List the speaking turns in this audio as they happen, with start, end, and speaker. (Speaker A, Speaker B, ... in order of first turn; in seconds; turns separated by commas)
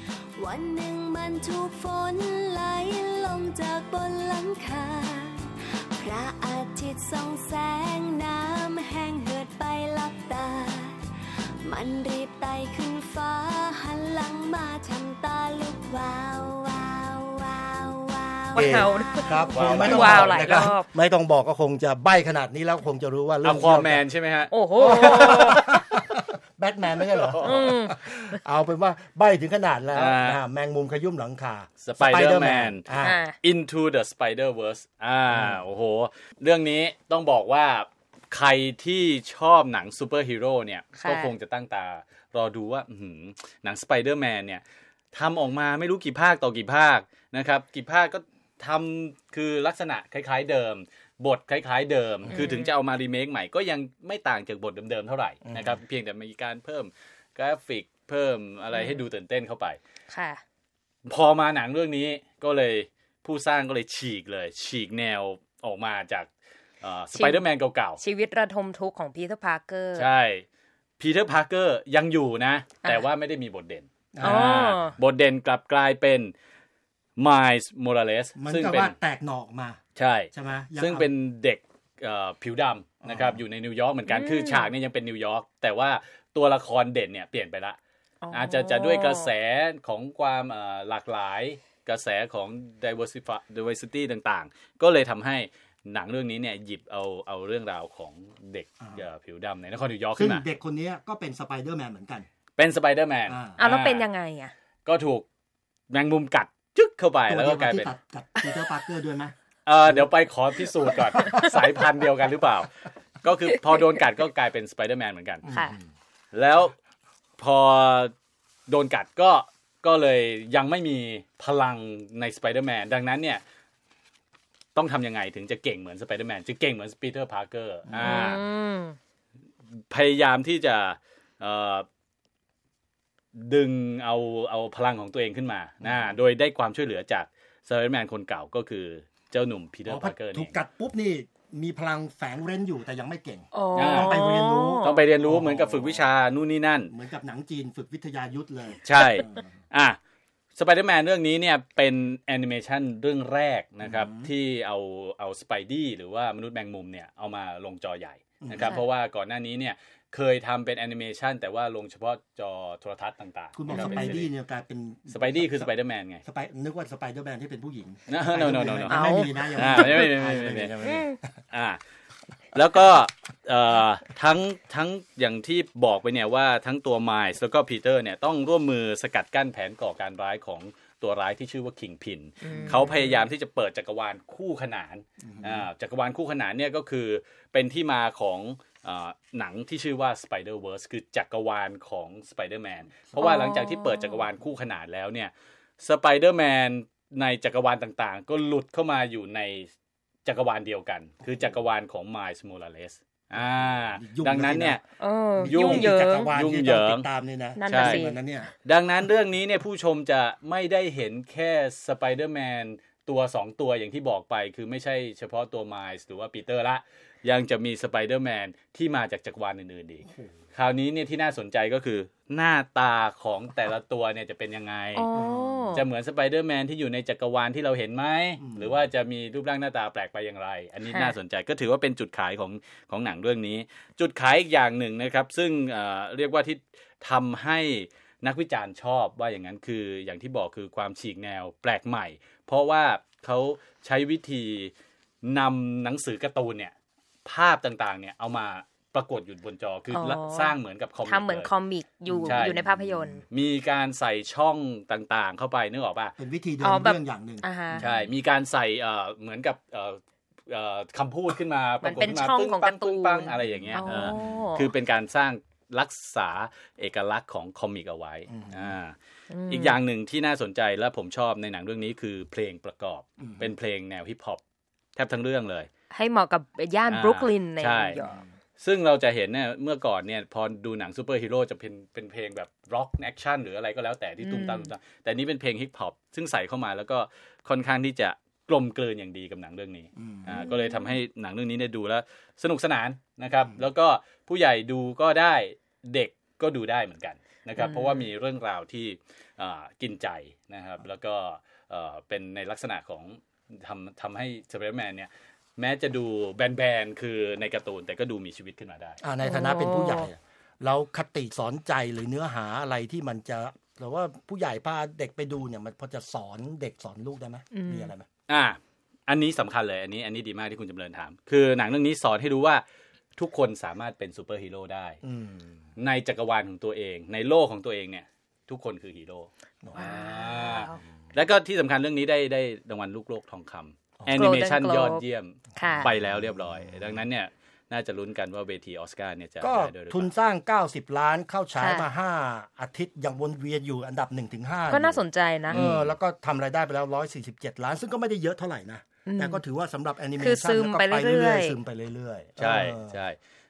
Speaker A: 0.4-11.0, Speaker A: 11.6-20.0, Speaker B: 18.6-20.9, Speaker C: 18.6-24.0, Speaker D: 19.5-20.5, Speaker D: 23.4-25.7, Speaker B: 24.5-25.6, Speaker C: 24.8-33.2, Speaker D: 27.2-27.8, Speaker B: 27.4-28.2, Speaker D: 29.9-30.4, Speaker D: 31.8-59.8, Speaker B: 33.0-33.4, Speaker C: 35.3-35.6, Speaker B: 41.0-41.3, Speaker B: 52.3-52.7, Speaker C: 55.5-55.8, Speaker B: 58.7-59.0, Speaker B: 60.1-60.4, Speaker D: 61.1-68.0, Speaker B: 67.2-67.4, Speaker B: 68.0-70.1, Speaker D: 69.9-70.5, Speaker D: 71.0-76.3, Speaker C: 74.1-74.6, Speaker B: 74.2-75.0, Speaker D: 77.2-79.0, Speaker C: 78.4-79.8, Speaker D: 80.0-87.8, Speaker C: 80.3-81.1, Speaker C: 83.0-83.4, Speaker B: 84.1-84.7, Speaker B: 88.2-89.3, Speaker D: 88.3-100.5, Speaker C: 100.2-102.3, Speaker D: 102.6-104.1, Speaker C: 103.3-103.6, Speaker B: 103.6-104.5, Speaker D: 104.9-105.3, Speaker D: 105.9-107.9, Speaker C: 107.3-109.3, Speaker D: 109.7-112.7, Speaker C: 110.9-111.5, Speaker B: 111.1-111.5, Speaker D: 113.2-115.4, Speaker C: 115.4-115.9, Speaker B: 115.5-115.8, Speaker D: 116.3-116.7, Speaker D: 117.4-118.1, Speaker D: 118.7-123.4, Speaker D: 124.8-128.4, Speaker C: 127.9-128.4, Speaker B: 128.0-129.0, Speaker D: 129.7-131.9, Speaker D: 133.3-140.5, Speaker C: 135.8-136.2, Speaker C: 139.9-146.1, Speaker B: 143.5-145.0, Speaker D: 143.7-144.2, Speaker D: 144.8-146.9, Speaker C: 146.9-149.4, Speaker D: 148.8-150.0, Speaker D: 150.6-164.3, Speaker C: 153.8-154.3, Speaker C: 158.4-158.8, Speaker B: 158.6-158.8, Speaker C: 163.5-165.7, Speaker B: 163.7-164.1, Speaker D: 165.1-166.2, Speaker C: 166.2-171.3, Speaker D: 168.1-171.0, Speaker B: 168.9-170.0, Speaker B: 170.9-171.2, Speaker D: 171.5-171.8, Speaker D: 172.5-199.7, Speaker B: 182.4-183.2, Speaker C: 182.5-182.9, Speaker C: 185.2-185.7, Speaker B: 193.2-194.2, Speaker D: 200.2-204.8, Speaker C: 203.3-204.8, Speaker B: 205.0-206.3, Speaker C: 205.4-208.5, Speaker D: 205.4-207.1, Speaker B: 207.6-208.2, Speaker D: 207.7-208.1, Speaker D: 208.7-225.1, Speaker C: 220.1-220.4, Speaker B: 224.9-225.9, Speaker C: 225.1-225.8, Speaker D: 225.7-244.7, Speaker C: 228.4-228.8, Speaker B: 230.9-231.2, Speaker D: 245.2-246.7, Speaker D: 247.2-251.5, Speaker B: 249.9-253.2, Speaker C: 252.1-253.2, Speaker D: 252.2-252.7, Speaker D: 253.3-256.1, Speaker C: 256.2-258.1, Speaker B: 256.6-257.9, Speaker D: 257.8-269.0, Speaker B: 261.8-264.7, Speaker C: 263.8-264.1, Speaker C: 268.3-268.8, Speaker B: 269.3-269.8, Speaker D: 269.5-274.4, Speaker C: 273.2-273.5, Speaker D: 275.0-275.7, Speaker B: 275.9-278.2, Speaker D: 276.9-278.0, Speaker C: 278.0-278.3, Speaker D: 278.6-309.0, Speaker B: 284.2-284.7, Speaker C: 290.0-290.4, Speaker B: 290.5-290.8, Speaker B: 297.6-298.1, Speaker C: 309.0-318.1, Speaker B: 309.2-310.1, Speaker B: 317.5-317.9, Speaker D: 318.3-322.6, Speaker D: 323.2-325.0, Speaker C: 325.0-325.6, Speaker D: 325.8-340.1, Speaker B: 329.8-330.8, Speaker B: 334.1-335.0, Speaker B: 335.6-335.9, Speaker C: 335.6-336.0, Speaker C: 339.4-353.0, Speaker B: 341.6-341.9, Speaker B: 344.7-345.6, Speaker D: 345.5-345.9, Speaker B: 349.1-349.4, Speaker B: 350.2-351.6, Speaker D: 352.4-353.2